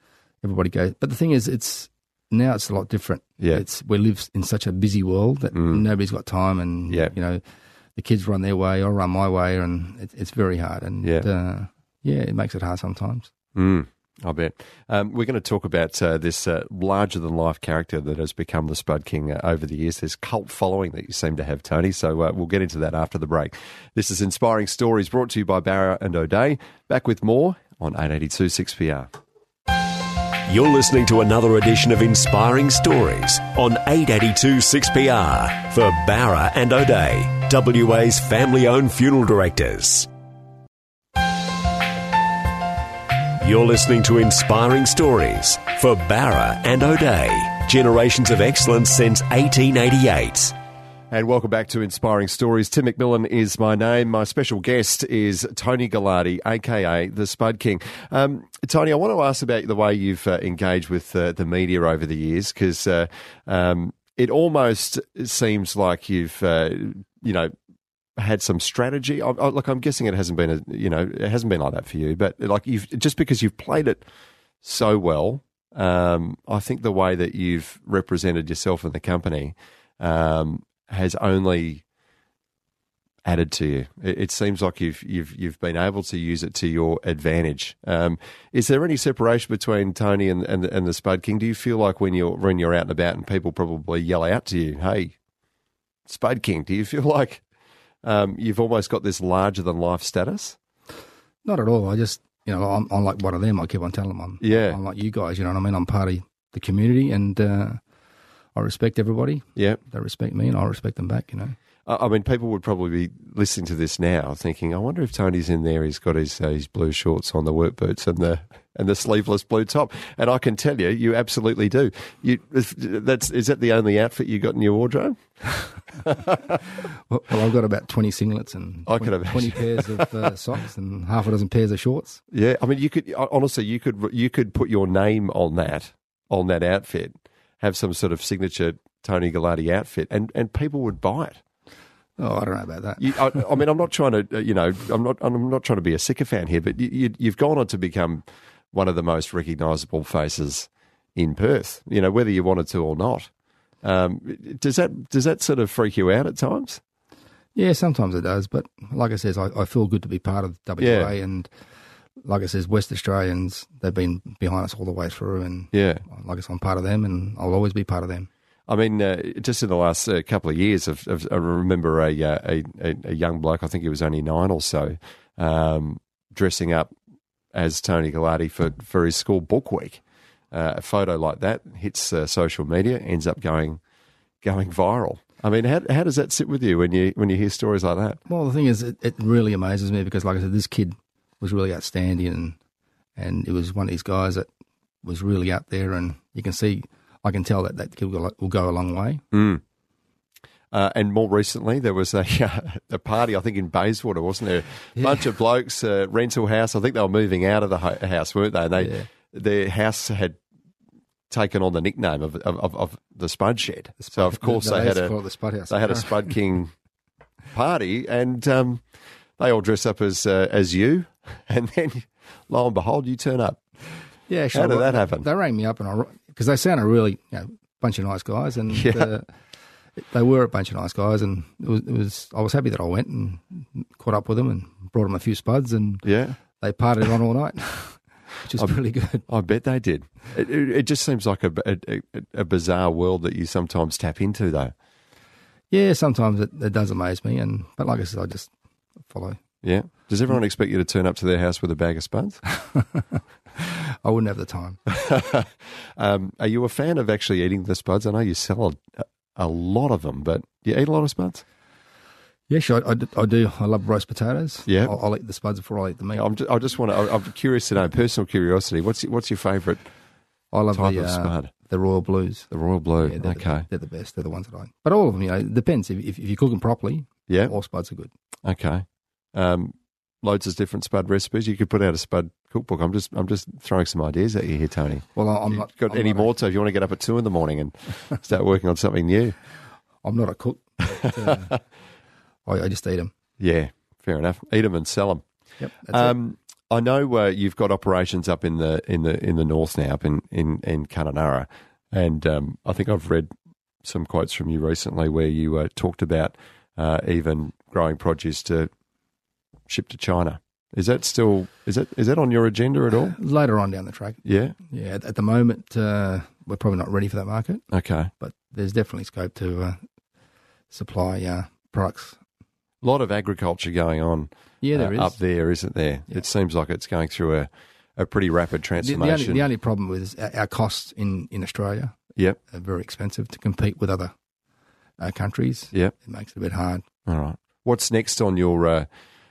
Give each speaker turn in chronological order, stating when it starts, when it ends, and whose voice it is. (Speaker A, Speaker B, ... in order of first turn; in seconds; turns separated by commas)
Speaker A: 0.4-7.4, Speaker B: 5.5-5.8, Speaker A: 8.0-13.3, Speaker B: 13.5-29.1, Speaker C: 30.4-40.1, Speaker C: 43.4-50.5, Speaker B: 51.1-67.5, Speaker B: 68.2-74.0, Speaker B: 74.6-81.8, Speaker B: 83.2-95.1, Speaker B: 96.0-97.4, Speaker B: 98.0-100.6, Speaker A: 101.4-107.8, Speaker B: 104.4-104.8, Speaker A: 108.5-111.5, Speaker B: 111.8-125.2, Speaker B: 125.9-126.5, Speaker A: 127.1-132.2, Speaker B: 128.8-130.1, Speaker B: 132.3-141.4, Speaker A: 142.2-143.6, Speaker B: 143.0-153.3, Speaker B: 153.8-156.8, Speaker A: 157.5-161.5, Speaker B: 160.8-161.1, Speaker A: 162.2-168.3, Speaker B: 165.7-166.0, Speaker B: 168.7-176.9, Speaker B: 177.5-180.0, Speaker B: 180.5-183.8, Speaker B: 184.4-188.2, Speaker A: 188.2-192.6, Speaker A: 193.2-194.5, Speaker A: 195.0-199.2, Speaker B: 199.3-199.6, Speaker B: 200.7-210.4, Speaker A: 204.9-205.3, Speaker A: 208.8-209.1, Speaker B: 211.3-215.2, Speaker A: 214.0-216.3, Speaker B: 215.7-216.7, Speaker B: 217.5-218.8, Speaker B: 219.4-223.6, Speaker A: 224.3-229.3, Speaker B: 224.5-225.3, Speaker B: 228.7-229.1, Speaker A: 230.0-239.2, Speaker B: 236.0-236.4, Speaker B: 239.3-244.7, Speaker A: 245.7-248.5, Speaker A: 249.1-249.4, Speaker B: 249.6-252.4, Speaker A: 252.7-254.8, Speaker B: 254.9-261.4, Speaker A: 262.5-266.2, Speaker B: 264.7-264.9, Speaker B: 266.1-269.8, Speaker A: 270.5-272.5, Speaker B: 270.7-271.5, Speaker B: 272.5-273.6, Speaker A: 273.0-278.1, Speaker B: 278.4-289.3, Speaker A: 285.1-286.4, Speaker A: 290.0-291.5, Speaker B: 291.0-291.6, Speaker A: 292.4-293.1, Speaker B: 293.4-295.2, Speaker A: 295.6-296.1, Speaker B: 295.9-303.3, Speaker B: 303.8-308.7, Speaker B: 309.7-313.1, Speaker A: 313.1-317.6, Speaker B: 314.2-314.6, Speaker B: 317.7-318.1, Speaker A: 318.2-319.8, Speaker A: 320.7-322.2, Speaker B: 322.8-329.4, Speaker A: 324.6-325.1, Speaker A: 328.8-331.9, Speaker A: 332.5-334.1, Speaker A: 335.0-336.9, Speaker B: 337.1-338.9